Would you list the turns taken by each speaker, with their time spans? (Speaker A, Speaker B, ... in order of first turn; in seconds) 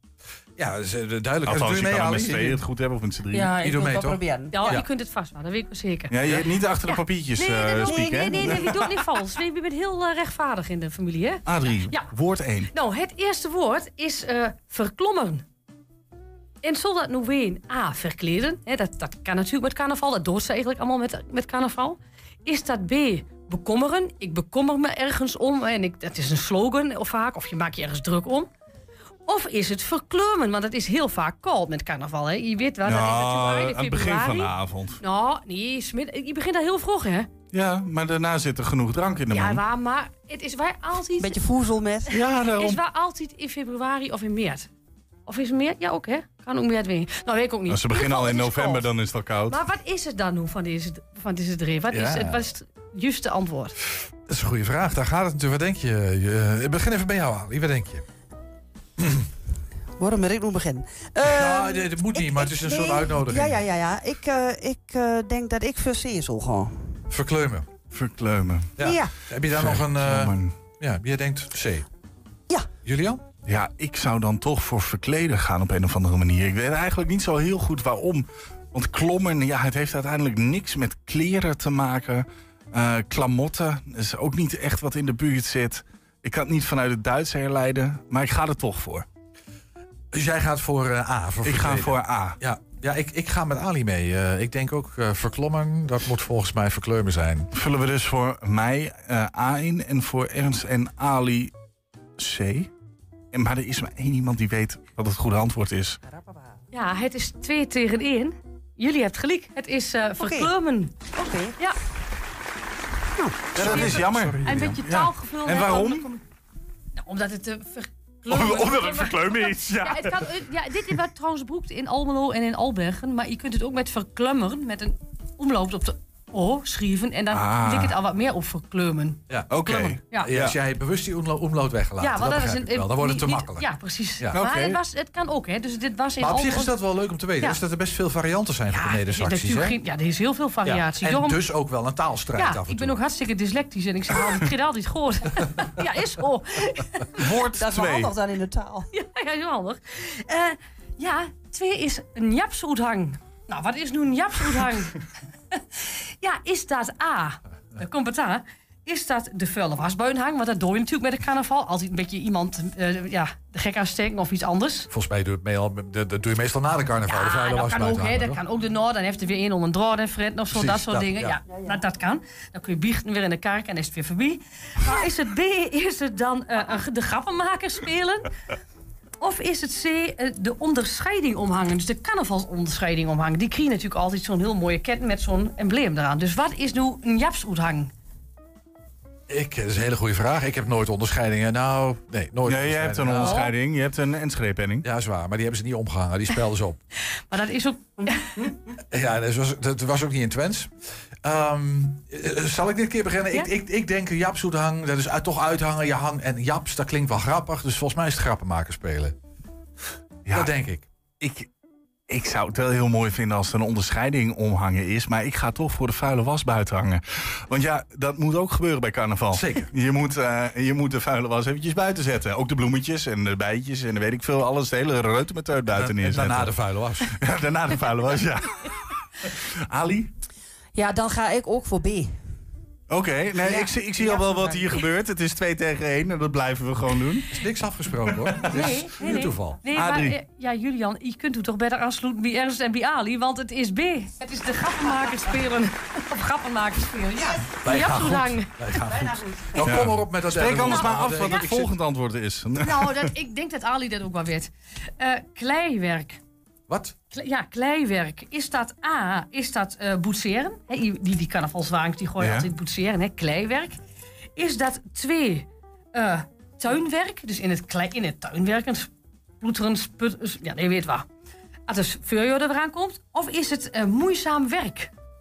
Speaker A: 0.6-2.6, 3.6-4.9, 51.9-52.4, 54.2-58.0, 59.0-59.2, 61.2-63.6, 67.1-67.7, 68.8-71.9, 72.8-73.2, 90.1-97.5, 113.5-114.8, 129.3-134.4, 136.2-139.8, 140.6-143.0, 164.9-168.4, 170.5-171.4, 189.3-193.4, 194.8-196.8, 198.9-200.7, 201.2-209.1, 210.3-211.5, 219.3-219.7, 225.8-227.1, 237.3-239.6, 247.6-251.7, 256.7-256.9
Speaker B: 1.4-3.5, 6.1-9.1, 11.4-12.7, 32.8-35.0, 37.5-39.6, 42.1-42.8, 47.7-49.6, 67.9-68.8, 69.4-70.5, 73.4-89.0, 91.4-92.4, 97.5-101.5, 102.2-102.7, 103.3-106.0, 113.5-116.1, 118.2-120.2, 127.3-127.9, 129.5-130.6, 134.3-134.8, 147.2-148.1, 192.5-194.8, 210.2-210.5, 212.1-230.1, 232.9-237.3, 238.1-238.5, 239.7-240.2, 249.6-253.1, 262.2-262.5
Speaker C: 3.3-4.8, 7.8-8.8, 41.2-42.1, 60.0-66.9, 68.8-69.1, 106.1-106.4, 110.2-110.5, 111.1-111.6, 147.6-148.9, 230.7-232.2, 233.4-234.7, 248.8-249.8
Speaker D: 4.5-12.1, 12.7-15.4, 16.6-28.5, 29.3-37.3, 39.3-41.4, 42.5-44.7, 45.3-48.9, 49.5-53.7, 106.7-110.9, 113.5-116.2, 117.0-130.3, 132.0-136.8, 138.7-141.4, 142.3-147.2, 148.9-155.0, 156.2-164.9, 167.1-178.3, 179.2-187.9, 193.2-193.5, 197.2-198.4, 238.5-248.5, 250.6-251.6, 252.6-256.2, 257.1-263.8, 264.4-271.1, 271.7-274.9